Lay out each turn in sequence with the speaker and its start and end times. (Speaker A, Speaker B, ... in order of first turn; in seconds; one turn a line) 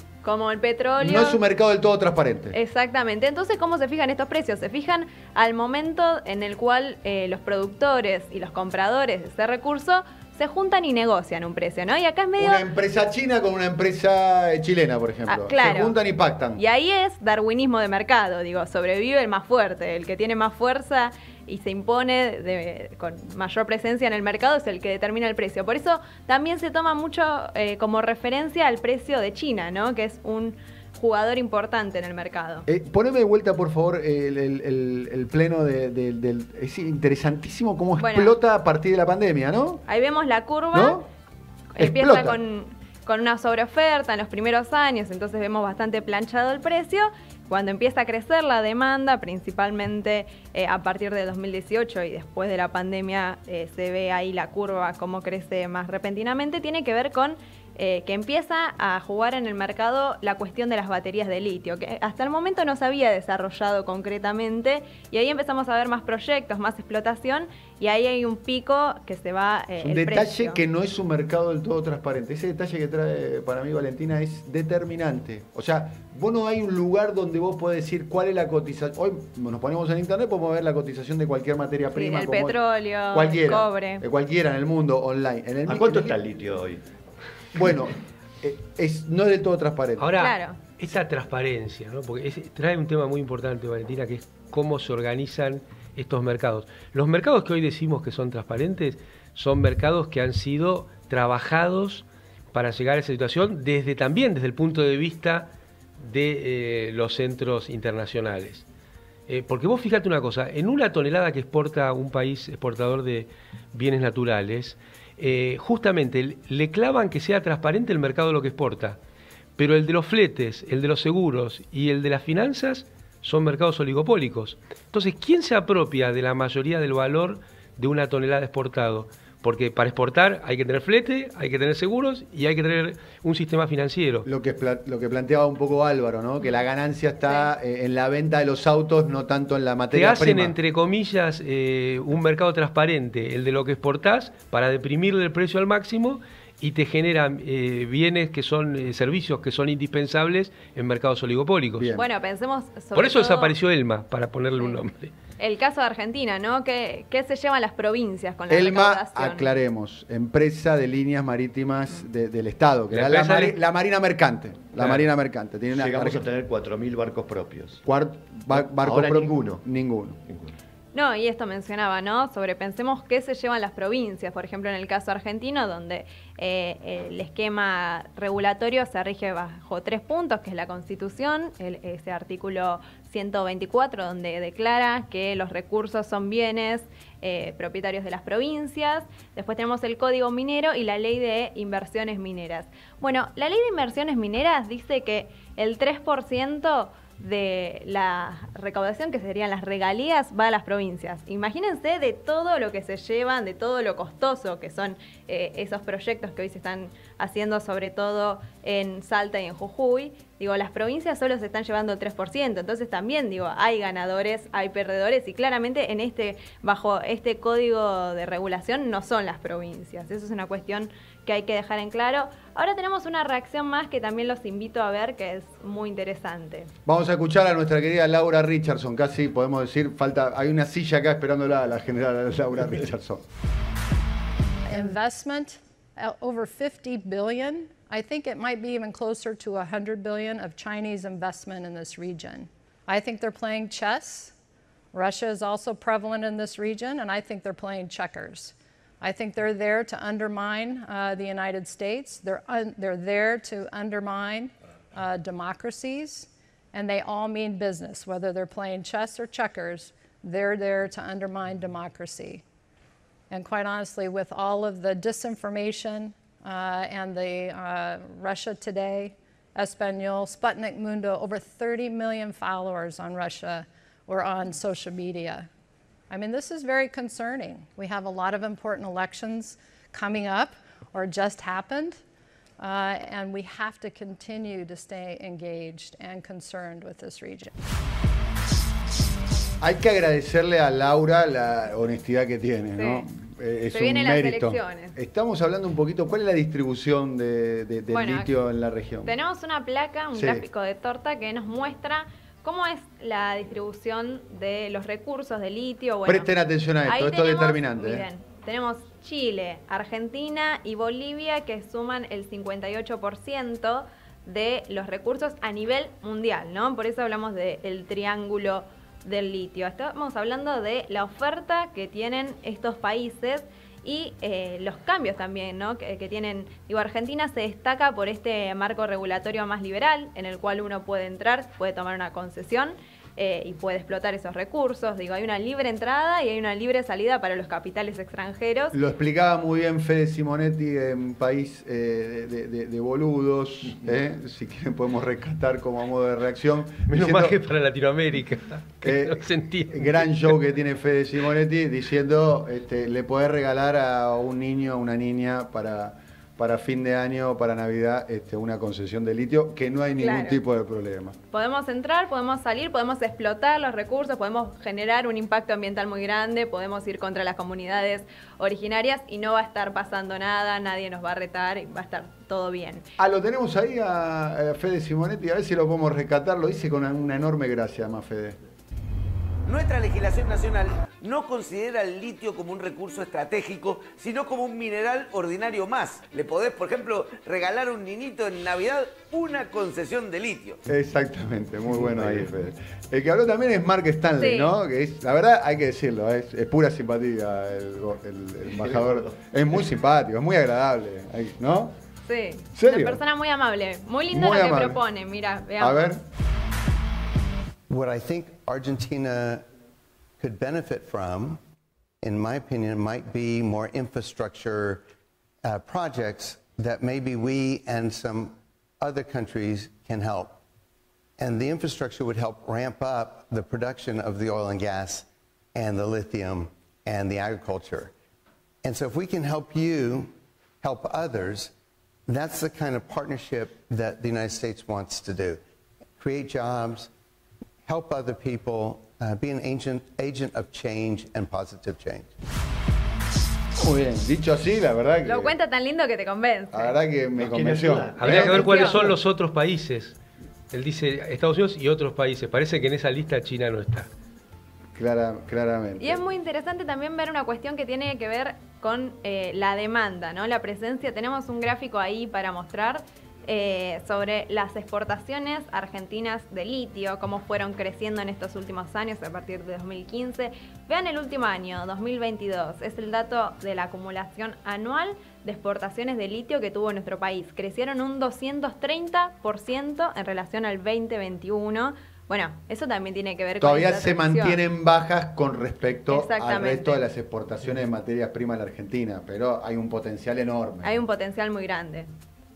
Speaker A: 0.2-1.4
Speaker B: 1.0-2.5
Speaker A: 2.5-12.7
Speaker B: 12.4-16.6
Speaker A: 15.3-15.9
Speaker A: 16.6-32.6
Speaker B: 32.7-39.8
Speaker A: 38.0-38.4
Speaker A: 39.9-41.0
Speaker B: 40.7-41.0
Speaker A: 41.8-70.6
Speaker B: 41.8-42.4
Speaker B: 69.8-82.6
Speaker A: 81.9-84.0
Speaker B: 83.1-86.2
Speaker C: 85.7-86.8
Speaker B: 87.5-90.1
Speaker D: 90.0-108.6
Speaker A: 90.2-90.6
Speaker D: 109.3-119.0
Speaker D: 119.6-134.3
Speaker B: 134.2-140.5
Speaker D: 139.9-151.9
Speaker B: 151.8-152.0
Speaker A: 151.9-153.5
Speaker D: 152.9-155.1
Speaker A: 155.4-159.5
Speaker B: 158.5-166.2
Speaker D: 162.9-163.6
Speaker C: 165.7-167.8
Speaker B: 167.8-170.2
Speaker C: 168.5-169.6
Speaker C: 170.3-170.5
Speaker A: 170.9-226.7
Speaker B: 226.8-233.2
Speaker E: 234.7-244.3
Speaker E: 244.9-262.4
Speaker E: 263.3-275.5
Speaker E: 276.1-282.0
Speaker E: 282.6-287.5
Speaker B: 289.6-299.1
Speaker A: 292.8-293.1
Speaker A: 293.7-294.9
Speaker A: 297.9-298.3
Speaker A: 299.0-306.3
Speaker B: 300.1-300.4
Speaker B: 306.0-308.1
Speaker A: 306.8-338.7
Speaker B: 338.7-347.4
Speaker D: 346.9-350.3
Speaker B: 348.8-361.2
Speaker A: 360.0-360.4
Speaker A: 361.3-372.8
Speaker B: 373.0-378.4
Speaker F: 379.4-390.6
Speaker B: 390.6-401.8
Speaker C: 391.8-392.2
Speaker A: 394.2-394.5
Speaker C: 398.5-399.1
Speaker A: 402.1-405.8
Speaker B: 402.5-403.0
Speaker B: 404.1-404.8
Speaker B: 405.6-406.0
Speaker G: 407.7-409.4
Speaker G: 410.2-411.4
Speaker G: 412.0-414.8
Speaker G: 415.4-420.4
Speaker G: 421.2-427.9
Speaker G: 428.6-431.5
Speaker G: 432.1-435.4
Speaker G: 436.0-436.9
Speaker G: 437.6-442.1
Speaker B: 443.6-445.3
Speaker A: 445.0-446.8
Speaker B: 446.5-448.9
Speaker C: 447.2-448.6
Speaker D: 448.0-450.0
Speaker A: 448.4-448.7
Speaker D: 450.5-453.9
Speaker B: 454.7-456.0
Speaker A: 455.8-484.4
Speaker B: 483.4-490.8
Speaker A: 485.9-486.8
Speaker A: 490.6-491.9